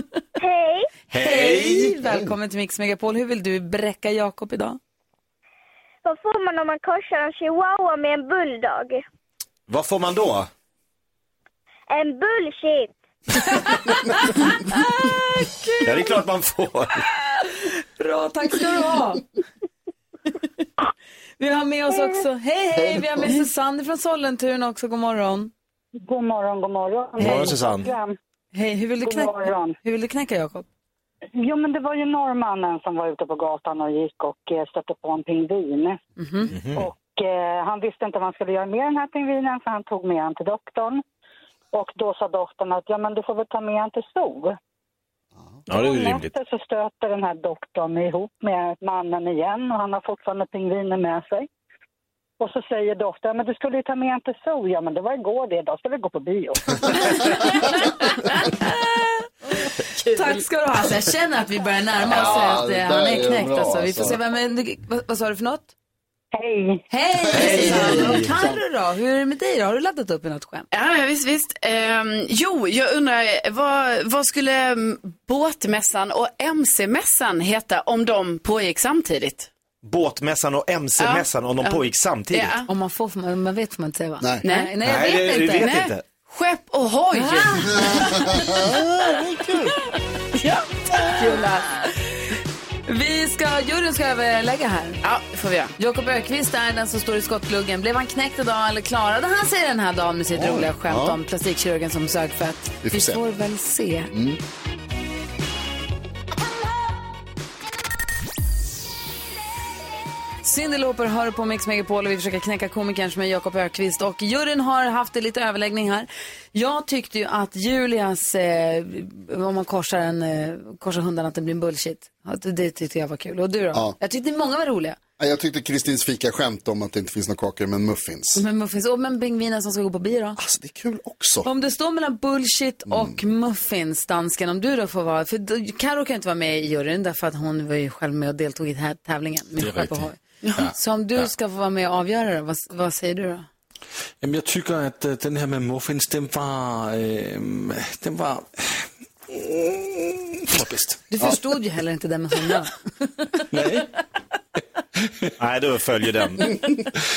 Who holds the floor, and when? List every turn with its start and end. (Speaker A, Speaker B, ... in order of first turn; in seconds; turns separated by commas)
Speaker A: 0.4-0.9, Speaker B: 1.1-2.1, Speaker C: 1.1-4.8, Speaker A: 6.0-9.0, Speaker B: 9.7-10.5, Speaker A: 11.9-12.9, Speaker C: 13.5-16.1, Speaker B: 15.8-17.0, Speaker C: 17.3-19.2, Speaker C: 21.4-25.5, Speaker D: 22.9-23.2, Speaker E: 26.0-28.1, Speaker B: 27.2-27.9, Speaker C: 28.5-30.6, Speaker E: 29.0-29.8, Speaker E: 31.4-36.0, Speaker C: 36.2-36.5, Speaker B: 36.5-36.9, Speaker E: 36.7-41.0, Speaker E: 41.7-44.5, Speaker B: 45.7-46.3, Speaker E: 45.7-51.5, Speaker E: 52.4-57.6, Speaker C: 57.3-59.3, Speaker C: 60.1-65.7, Speaker D: 62.0-64.2, Speaker E: 66.3-66.8, Speaker C: 66.9-70.7, Speaker B: 67.3-68.3, Speaker D: 67.3-68.4, Speaker F: 70.7-79.5, Speaker B: 79.8-82.6, Speaker F: 81.0-82.7, Speaker C: 82.7-85.7, Speaker F: 84.4-84.8, Speaker B: 84.8-86.0, Speaker F: 85.5-87.7, Speaker C: 87.1-88.7, Speaker D: 87.7-89.7, Speaker F: 90.3-91.6, Speaker C: 91.0-91.9, Speaker C: 92.9-95.0, Speaker F: 95.0-95.7, Speaker C: 95.8-104.1, Speaker D: 100.3-101.2, Speaker D: 102.8-103.2, Speaker D: 104.1-104.4, Speaker C: 110.4-125.0, Speaker D: 125.2-128.4, Speaker C: 128.3-130.4, Speaker D: 130.4-131.5, Speaker C: 131.4-143.5, Speaker D: 132.9-133.2, Speaker F: 140.4-140.7, Speaker G: 144.2-151.0, Speaker C: 151.1-153.4, Speaker G: 153.5-153.8, Speaker B: 155.4-156.8